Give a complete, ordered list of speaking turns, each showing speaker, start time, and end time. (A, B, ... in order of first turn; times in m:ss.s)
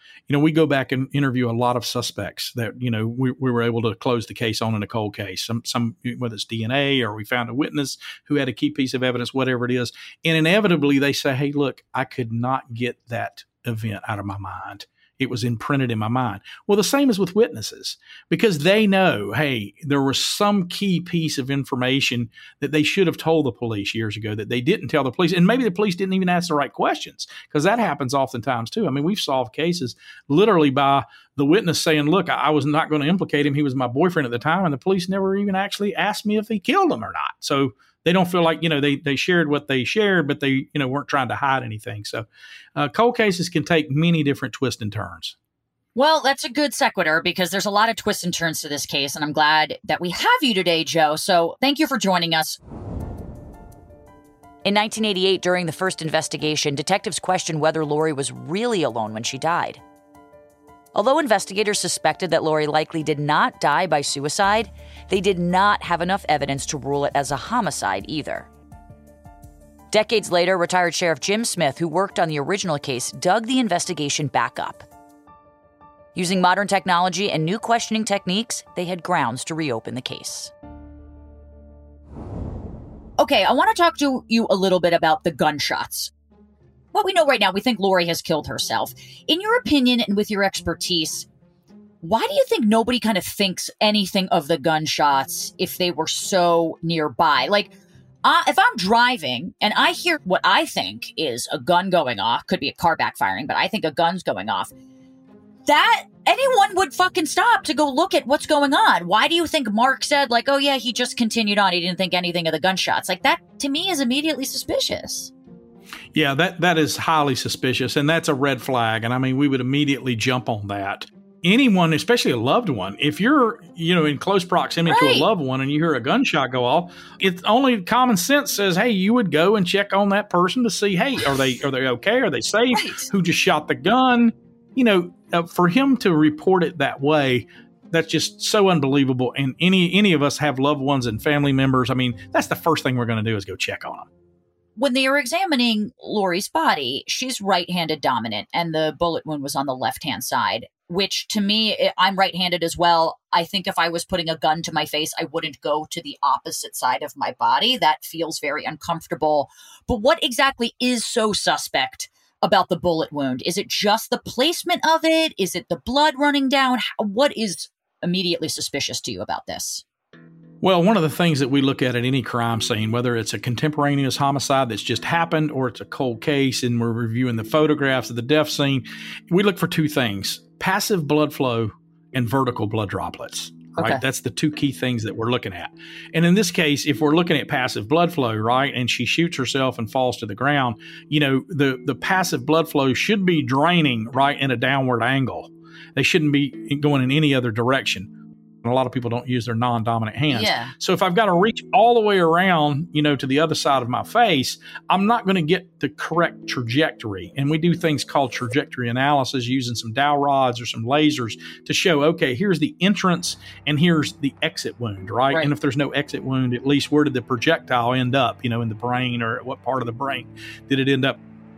0:00.3-0:45.4 A
0:46.0-0:52.6 B
0:54.6-0:59.8 C
1:01.0-1:08.5 C
1:09.9-1:14.9 C
1:16.2-1:20.5 C
1:23.2-1:26.1 B
1:26.9-1:31.3 B
1:32.0-1:44.7 B
1:45.7-1:55.3 B
1:56.1-2:24.1 A
2:04.9-2:05.3 B
2:12.7-2:13.1 B
2:24.8-2:49.8 B
2:50.6-3:18.1 A
3:03.8-3:04.0 B
3:18.6-3:41.2 A
3:20.3-3:20.7 B